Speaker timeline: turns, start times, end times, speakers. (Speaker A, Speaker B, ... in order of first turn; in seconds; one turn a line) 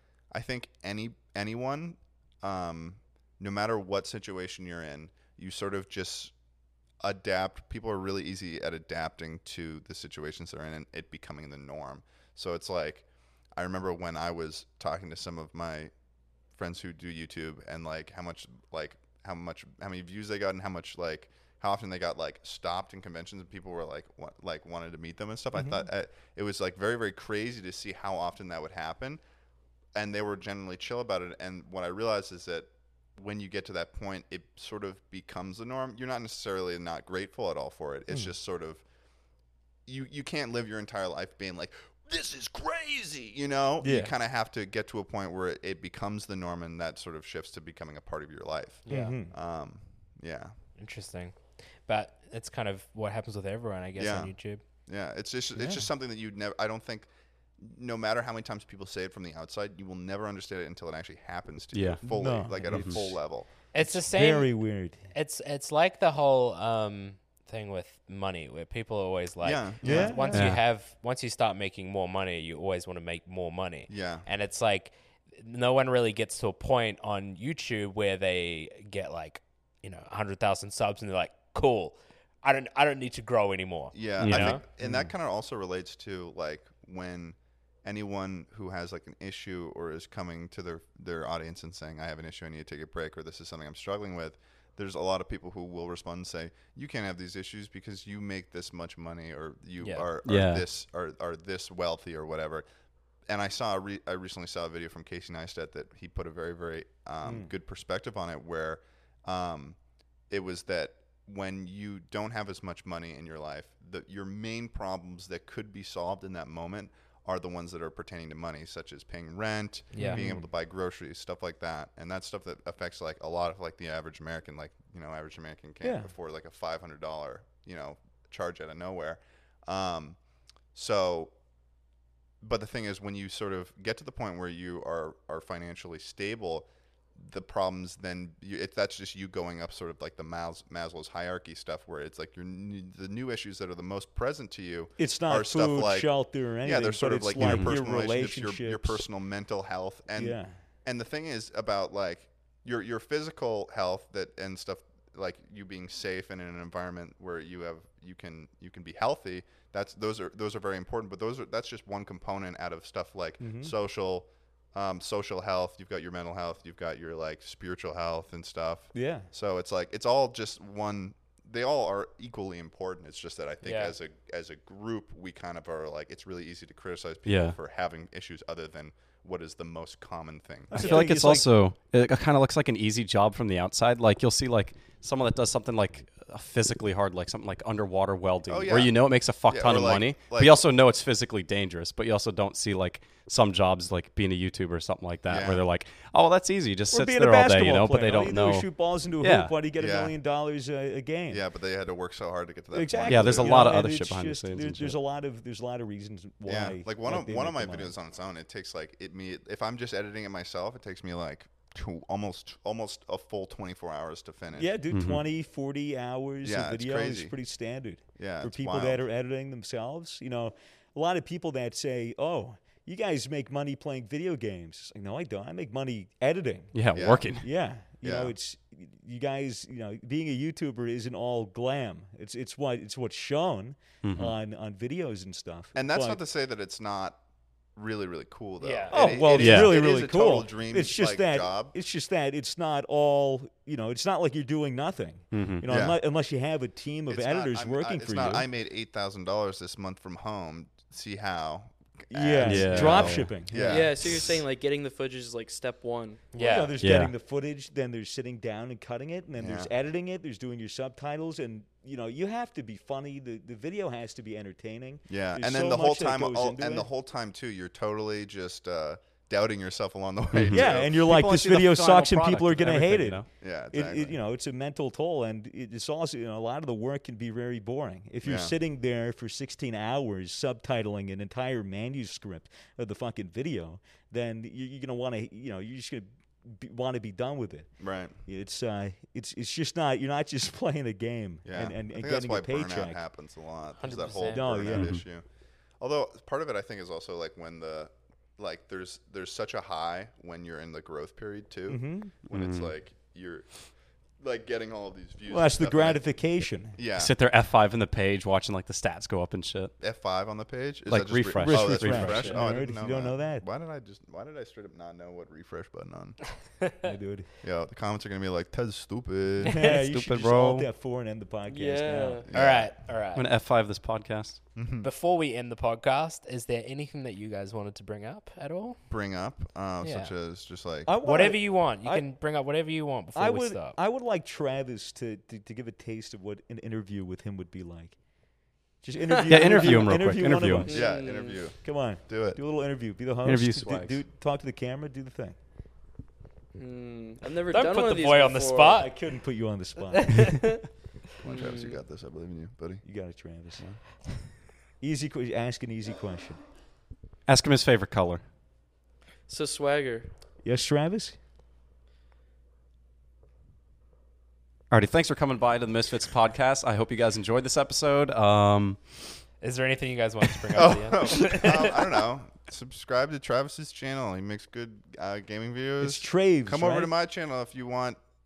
Speaker A: 0.3-6.3
Speaker A: 7.0-15.9
Speaker A: 16.5-29.2
Speaker B: 25.5-25.9
Speaker A: 29.9-38.8
Speaker B: 38.1-38.3
Speaker A: 39.9-50.5
Speaker B: 43.8-44.1
Speaker C: 48.8-49.2
Speaker B: 48.9-49.3
Speaker C: 50.8-54.6
Speaker A: 54.0-63.5
Speaker B: 55.5-55.9
Speaker D: 61.7-62.0
Speaker B: 62.0-63.2
Speaker D: 62.6-63.0
Speaker C: 63.7-64.6
Speaker B: 63.8-65.0
Speaker C: 65.1-84.6
Speaker A: 69.4-70.3
Speaker B: 69.8-70.3
Speaker E: 70.1-70.5
Speaker D: 70.3-70.6
Speaker A: 73.9-74.3
Speaker A: 83.9-102.7
Speaker D: 84.2-84.6
Speaker B: 84.8-85.1
Speaker C: 99.8-100.0
Speaker D: 100.2-100.7
Speaker A: 103.3-109.8
Speaker B: 107.2-107.5
Speaker A: 110.3-130.2
Speaker C: 119.9-120.2
Speaker B: 120.0-120.5
Speaker B: 125.8-126.1
Speaker A: 130.7-131.3
Speaker A: 132.4-181.1
Speaker B: 145.0-149.1
Speaker D: 147.4-147.8
Speaker B: 150.1-150.5
Speaker B: 163.4-163.7
Speaker B: 168.9-169.3
Speaker C: 173.6-173.9
Speaker D: 177.2-177.6
Speaker B: 180.7-181.5
Speaker D: 180.7-199.5
Speaker A: 188.5-190.7
Speaker A: 195.3-195.7
Speaker B: 196.9-201.4
Speaker A: 199.7-200.1
Speaker A: 201.3-203.8
Speaker B: 202.7-207.9
Speaker D: 203.1-204.9
Speaker A: 206.4-214.7
Speaker B: 214.5-226.7
Speaker D: 214.9-215.2
Speaker A: 216.4-217.3
Speaker A: 218.2-219.0
Speaker D: 226.7-227.5
Speaker A: 226.9-227.3
Speaker B: 227.3-236.2
Speaker A: 228.0-228.3
Speaker D: 234.0-234.3
Speaker A: 235.7-237.2
Speaker A: 237.7-241.7
Speaker C: 238.6-239.4
Speaker B: 238.9-248.5
Speaker D: 239.4-239.8
Speaker D: 245.3-245.7
Speaker A: 245.7-246.0
Speaker A: 247.1-254.4
Speaker B: 252.1-253.9
Speaker D: 252.4-253.5
Speaker E: 253.6-256.3
Speaker C: 256.3-256.7
Speaker B: 256.4-266.9
Speaker D: 256.8-257.1
Speaker A: 259.4-259.7
Speaker A: 265.1-271.0
Speaker D: 270.3-273.3
Speaker B: 270.5-287.7
Speaker A: 273.4-274.1
Speaker A: 278.2-278.5
Speaker A: 287.8-288.1
Speaker B: 288.2-293.0
Speaker A: 291.4-295.2
Speaker C: 293.8-294.7
Speaker B: 294.2-295.0
Speaker D: 294.7-295.0
Speaker A: 295.8-306.2
Speaker B: 301.7-302.1
Speaker D: 302.3-302.7
Speaker B: 305.3-306.8
Speaker A: 306.7-307.1
Speaker D: 306.9-309.8
Speaker A: 309.8-316.2
Speaker D: 310.9-312.4
Speaker B: 311.4-313.4
Speaker C: 316.6-316.9
Speaker B: 316.8-317.3
Speaker A: 317.4-319.6
Speaker B: 319.4-322.2
Speaker D: 319.7-320.7
Speaker E: 321.5-322.3
Speaker A: 322.3-322.7
Speaker C: 322.3-323.3
Speaker D: 323.1-324.4
Speaker A: 324.5-324.9
Speaker C: 324.8-328.8
Speaker A: 328.9-330.9
Speaker C: 329.8-330.1
Speaker B: 330.9-332.0
Speaker C: 331.0-333.8
Speaker B: 333.1-337.9
Speaker B: 338.8-340.9
Speaker E: 339.1-339.4
Speaker D: 339.2-340.7
Speaker E: 340.5-341.4
Speaker A: 340.7-342.4
Speaker B: 341.6-345.4
Speaker D: 343.2-344.0
Speaker E: 346.5-348.8
Speaker C: 347.5-348.9
Speaker B: 348.8-350.4
Speaker C: 350.0-350.6
Speaker E: 351.2-351.8
Speaker A: 351.2-352.8
Speaker B: 352.8-353.6
Speaker B: 354.8-356.4
Speaker D: 357.2-358.2
Speaker E: 359.3-360.1
Speaker B: 360.4-361.2
Speaker D: 364.7-369.2
Speaker C: 369.4-371.7
Speaker A: 370.5-378.0
Speaker B: 375.8-376.9